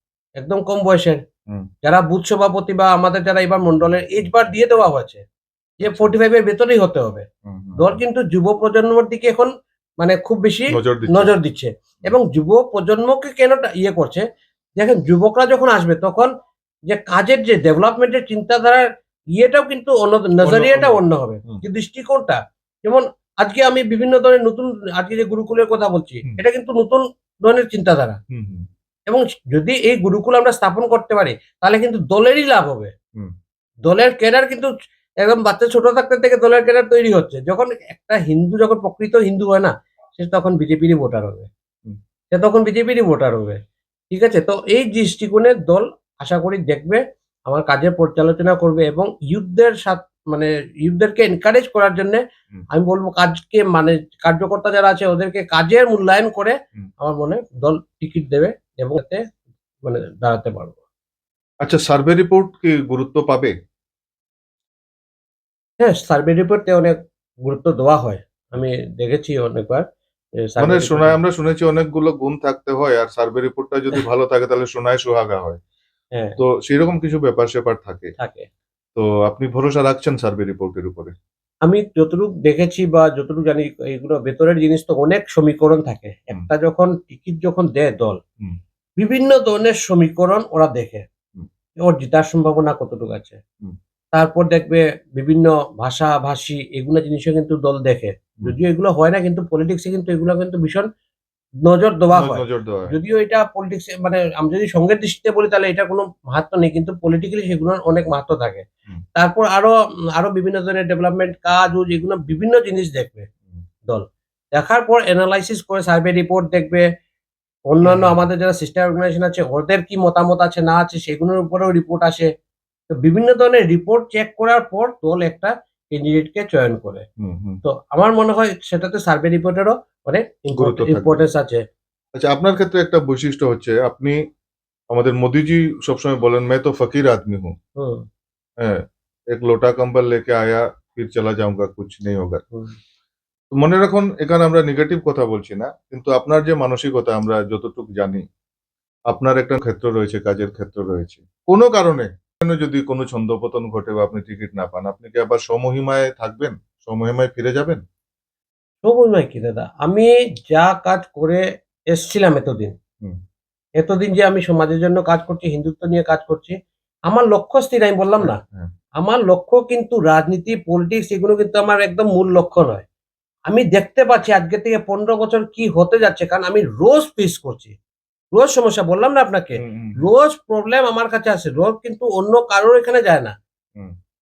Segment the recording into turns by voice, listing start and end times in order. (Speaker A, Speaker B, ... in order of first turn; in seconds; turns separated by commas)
Speaker A: 0.4-1.2, Speaker A: 1.8-5.2, Speaker B: 5.8-6.1, Speaker A: 5.8-7.2, Speaker B: 7.5-8.0, Speaker A: 7.8-14.2, Speaker B: 10.7-11.3, Speaker A: 14.8-16.3, Speaker A: 16.9-28.2, Speaker B: 20.4-21.6, Speaker B: 28.3-28.7, Speaker A: 29.1-32.9, Speaker A: 33.9-41.5, Speaker A: 42.3-43.6, Speaker A: 44.1-59.2, Speaker A: 59.8-60.8, Speaker B: 61.6-63.5, Speaker A: 65.8-69.8, Speaker A: 70.4-71.2, Speaker B: 70.6-75.6, Speaker B: 76.4-78.1, Speaker A: 78.2-78.5, Speaker B: 79.0-81.1, Speaker A: 81.6-88.2, Speaker A: 89.0-91.0, Speaker A: 91.8-93.4, Speaker A: 94.1-100.8, Speaker A: 101.6-113.3, Speaker B: 102.1-102.9, Speaker A: 113.8-116.8, Speaker A: 117.7-122.3, Speaker B: 117.8-118.1, Speaker A: 122.9-127.0, Speaker B: 127.2-127.6, Speaker A: 127.6-131.6, Speaker B: 130.5-131.2, Speaker B: 132.2-134.2, Speaker B: 134.9-137.5, Speaker A: 137.8-138.0, Speaker B: 138.6-142.4, Speaker B: 143.5-148.2, Speaker B: 149.1-157.8, Speaker A: 158.8-162.7, Speaker A: 163.8-166.6, Speaker A: 167.1-168.4, Speaker B: 168.2-168.7, Speaker A: 169.0-172.8, Speaker A: 173.5-177.7, Speaker A: 178.3-183.3, Speaker B: 179.6-180.0